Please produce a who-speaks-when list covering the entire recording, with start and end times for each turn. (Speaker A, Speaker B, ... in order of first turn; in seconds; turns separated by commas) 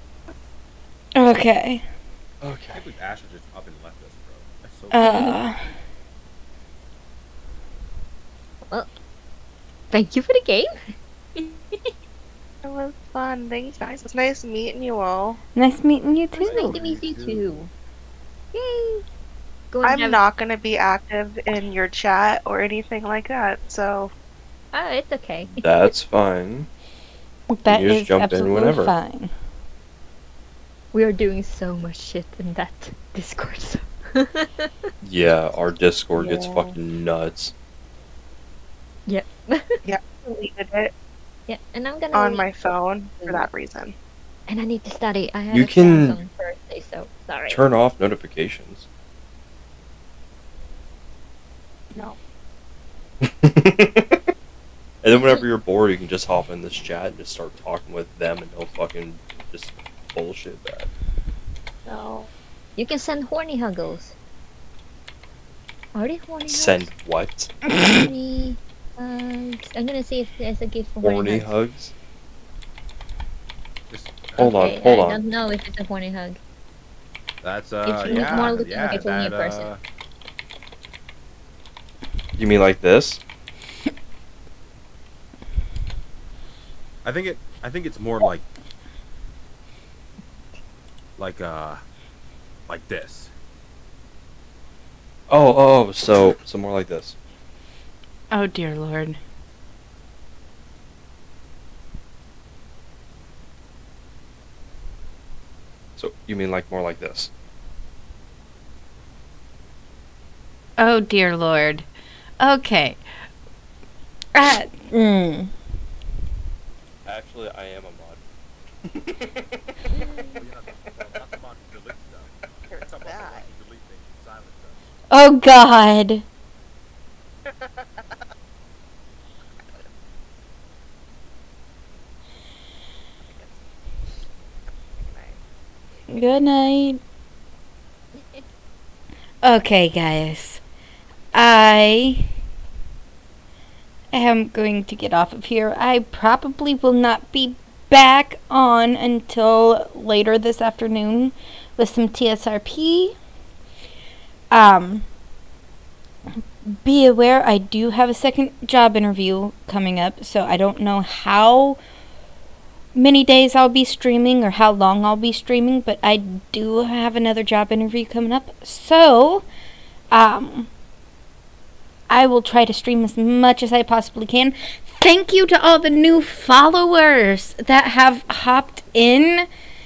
Speaker A: 1.1-1.8, Speaker B: 2.4-2.8, Speaker C: 2.7-5.0, Speaker A: 4.9-5.7, Speaker D: 5.0-5.4, Speaker D: 9.9-10.7, Speaker D: 11.4-11.9, Speaker E: 12.6-15.4, Speaker A: 15.5-16.8, Speaker D: 16.3-17.7, Speaker C: 16.4-17.7, Speaker D: 18.5-19.0, Speaker D: 19.7-20.2, Speaker E: 19.8-24.1, Speaker D: 24.7-25.6, Speaker B: 25.4-26.7, Speaker A: 27.6-29.3, Speaker B: 27.6-28.9, Speaker D: 30.9-34.7, Speaker B: 35.0-37.5, Speaker E: 36.2-36.7, Speaker D: 39.1-39.8, Speaker E: 39.9-40.9, Speaker D: 41.5-42.5, Speaker E: 42.1-43.9, Speaker D: 43.2-43.5, Speaker D: 44.5-47.6, Speaker B: 45.5-46.2, Speaker B: 47.5-48.9, Speaker B: 53.2-54.2, Speaker B: 55.0-60.9, Speaker E: 61.9-62.3, Speaker D: 62.8-64.1, Speaker D: 65.9-66.9, Speaker B: 66.5-67.5, Speaker D: 67.7-71.5, Speaker B: 71.0-71.9, Speaker C: 73.9-74.8, Speaker B: 74.4-75.2, Speaker D: 74.4-76.4, Speaker C: 77.4-79.8, Speaker D: 77.8-79.7, Speaker B: 82.4-83.2, Speaker C: 87.0-88.4, Speaker C: 91.2-91.8, Speaker C: 92.7-93.3, Speaker B: 95.3-97.2, Speaker A: 98.3-99.2, Speaker B: 106.0-107.3, Speaker A: 110.8-111.9, Speaker A: 112.4-113.0, Speaker A: 114.3-115.5, Speaker B: 117.0-118.2, Speaker B: 118.8-119.4, Speaker C: 120.3-124.8, Speaker E: 122.7-123.4, Speaker A: 125.1-126.2, Speaker E: 127.5-128.2, Speaker E: 129.6-129.9, Speaker E: 133.2-133.6, Speaker E: 135.0-135.4, Speaker A: 136.1-137.0, Speaker A: 139.4-140.6, Speaker A: 141.3-142.3, Speaker A: 144.1-153.1, Speaker A: 154.5-155.1, Speaker A: 156.7-161.8, Speaker A: 162.9-169.4, Speaker A: 170.1-170.7, Speaker A: 172.1-179.5